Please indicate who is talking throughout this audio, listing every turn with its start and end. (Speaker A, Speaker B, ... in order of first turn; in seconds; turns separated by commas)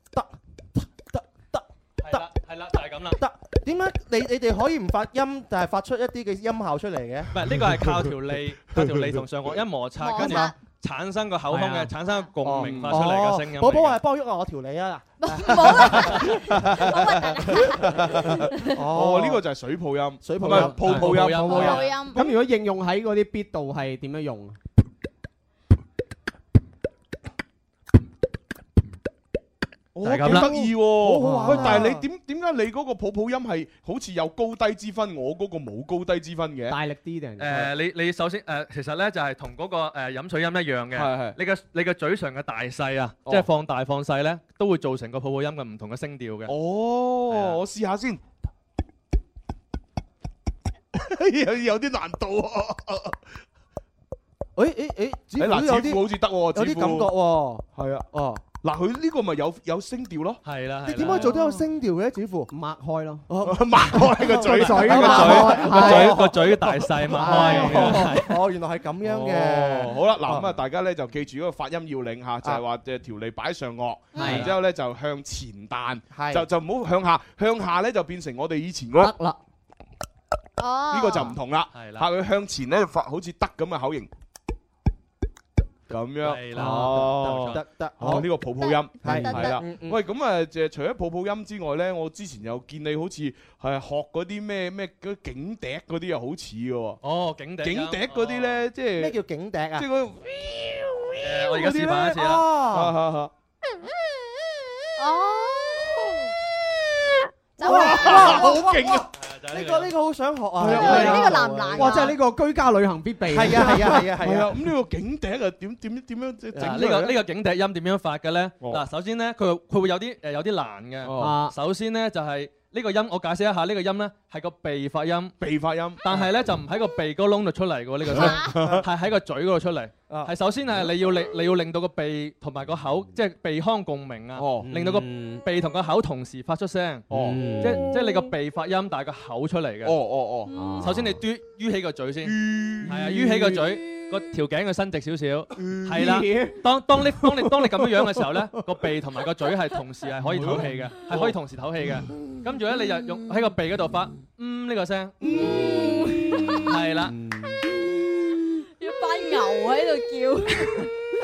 Speaker A: 0.1-2.2, Speaker B: 2.0-3.2, Speaker A: 3.1-7.3, Speaker B: 7.3-14.0, Speaker C: 7.4-9.5, Speaker D: 10.0-10.6, Speaker A: 10.2-10.5, Speaker E: 11.5-11.9, Speaker D: 12.1-12.3, Speaker A: 12.4-16.3, Speaker C: 12.5-13.1, Speaker D: 15.2-18.8, Speaker C: 16.4-17.0, Speaker C: 18.0-22.4, Speaker A: 18.7-19.4, Speaker A: 20.2-21.6, Speaker E: 20.4-24.6, Speaker B: 20.8-22.1, Speaker D: 21.5-22.2, Speaker C: 29.9-36.8, Speaker B: 30.0-30.5, Speaker A: 30.2-32.0, Speaker E: 30.3-31.9, Speaker E: 36.7-37.4, Speaker B: 37.4-46.5, Speaker C: 37.4-37.7, Speaker C: 40.9-41.4, Speaker C: 46.5-48.2, Speaker B: 47.3-47.6, Speaker C: 50.9-53.2, Speaker A: 54.5-58.4, Speaker C: 55.4-57.1, Speaker C: 57.8-60.4, Speaker B: 60.4-61.4, Speaker A: 60.8-62.5, Speaker E: 62.5-63.2, Speaker A: 63.3-70.5, Speaker C: 63.4-66.8, Speaker E: 64.4-66.3, Speaker B: 65.0-68.4, Speaker E: 67.0-68.2, Speaker C: 67.3-67.9, Speaker C: 69.0-79.1, Speaker E: 74.2-74.5, Speaker A: 76.1-76.5, Speaker E: 79.0-79.4, Speaker D: 80.6-81.4, Speaker C: 80.9-84.1, Speaker B: 81.7-82.0, Speaker C: 85.9-97.0, Speaker B: 86.2-87.6, Speaker E: 86.5-87.2, Speaker A: 86.7-88.3, Speaker D: 88.6-89.6, Speaker A: 89.0-90.0, Speaker E: 89.0-89.3, Speaker B: 97.0-98.7, Speaker C: 97.6-99.1, Speaker A: 99.0-99.9, Speaker C: 99.8-103.3, Speaker B: 101.2-102.5, Speaker A: 102.1-102.9, Speaker D: 105.0-106.1, Speaker D: 107.6-108.9, Speaker A: 107.6-112.2, Speaker C: 107.6-109.1, Speaker B: 109.1-109.9, Speaker C: 110.6-111.4, Speaker E: 110.6-114.1, Speaker D: 110.7-112.1, Speaker A: 113.3-114.5, Speaker C: 114.2-117.2, Speaker A: 116.5-116.8, Speaker B: 116.6-125.3, Speaker C: 118.6-118.8, Speaker C: 121.0-121.4, Speaker E: 121.2-121.5, Speaker C: 125.4-126.3, Speaker B: 126.0-140.0, Speaker C: 128.1-128.8, Speaker D: 128.2-128.6, Speaker C: 134.3-134.8, Speaker E: 134.7-135.4, Speaker C: 137.1-137.5, Speaker E: 137.1-138.1, Speaker C: 139.8-140.5, Speaker D: 140.5-140.8, Speaker E: 140.5-141.2, Speaker B: 140.8-155.4, Speaker C: 142.2-143.6, Speaker C: 145.6-146.2, Speaker E: 145.9-148.5, Speaker C: 150.2-151.4, Speaker C: 155.2-157.6, Speaker D: 155.2-156.8, Speaker B: 156.5-157.2, Speaker D: 158.8-160.9